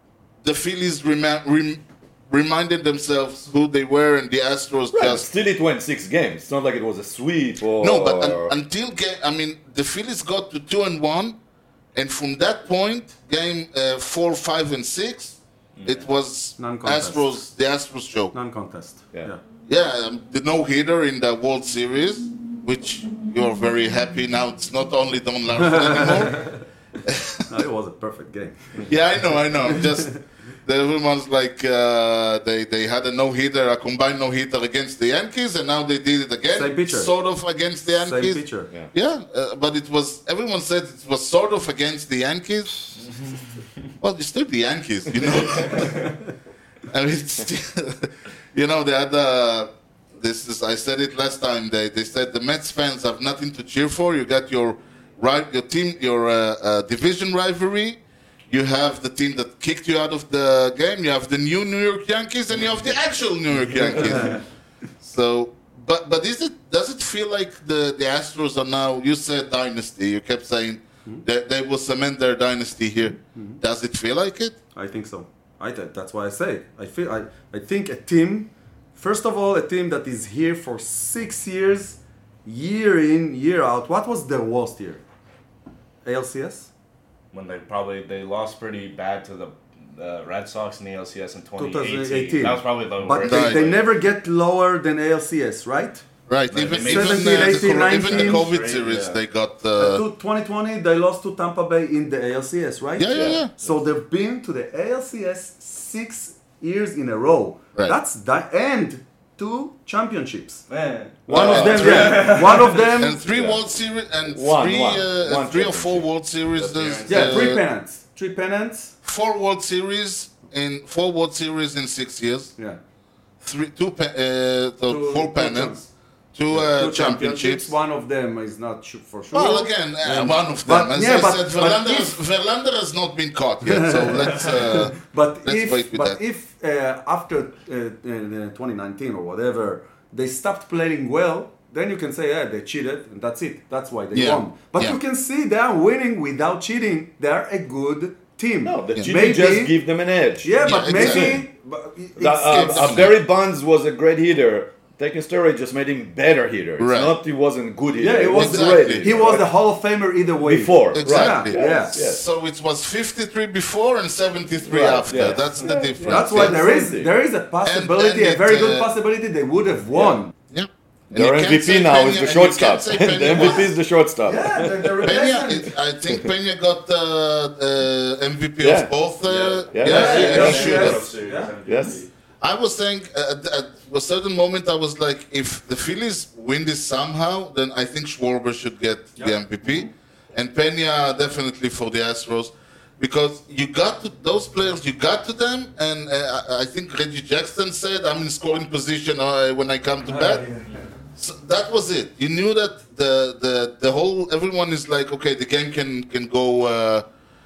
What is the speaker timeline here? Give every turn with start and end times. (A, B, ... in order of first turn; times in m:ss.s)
0:00.4-0:05.2 A
0:04.9-0:08.5 B
0:07.8-0:11.4 A
0:11.9-0:18.3 A
0:15.8-0:16.0 C
0:16.6-0:17.3 D
0:18.3-0:19.4 D
0:19.7-0:26.5 A
0:25.8-0:26.4 D
0:27.0-0:27.4 A
0:27.5-0:28.9 D
0:28.9-0:42.8 A
0:36.5-0:37.1 D
0:38.0-0:38.7 D
0:44.0-0:46.1 A
0:46.9-0:58.0 A
0:58.5-1:04.4 A
1:03.8-1:04.2 C
1:04.0-1:04.4 D
1:05.0-1:14.6 A
1:14.7-1:25.0 D
1:26.0-1:26.7 D
1:27.3-1:33.9 C
1:31.6-1:36.0 D
1:33.2-1:33.6 A
1:36.3-1:40.0 A
1:36.5-1:39.2 C
1:36.8-1:38.4 D
1:39.8-1:50.6 D
1:43.0-1:43.5 A
1:43.1-1:43.4 B
1:50.7-1:53.0 C
1:51.3-1:52.3 B
1:51.3-1:53.2 D
1:51.3-1:57.6 A
1:53.2-1:53.6 B
1:54.3-1:56.1 B
1:56.6-1:57.5 C
1:57.1-1:58.9 D
1:59.0-2:02.5 A
2:03.4-2:05.8 A
2:04.9-2:05.9 D
2:06.3-2:07.7 A
2:06.5-2:12.2 D
2:09.3-2:16.2 A
2:13.6-2:29.8 D
2:24.1-2:25.0 A
2:28.6-2:31.4 B
2:30.4-2:33.0 D
2:30.6-2:31.4 A
2:32.2-2:39.5 B
2:32.5-2:33.2 A
2:36.8-2:37.2 A
2:38.0-2:41.9 D
2:38.3-2:39.1 A
2:40.4-2:42.2 B
2:40.9-2:46.6 A
2:44.7-2:47.1 B
2:46.1-2:50.3 D
2:47.6-2:48.9 A
2:49.9-2:50.2 B
2:50.5-2:53.7 A
2:51.1-2:55.1 B
2:54.2-2:55.7 D
2:55.0-3:01.0 A
2:58.6-2:58.9 B
2:59.2-3:02.1 C
2:59.7-3:01.0 B
2:59.8-3:01.5 D
3:01.6-3:02.0 B
3:02.4-3:20.5 A
3:09.2-3:09.9 D
3:20.0-3:20.8 D
3:21.2-3:27.0 A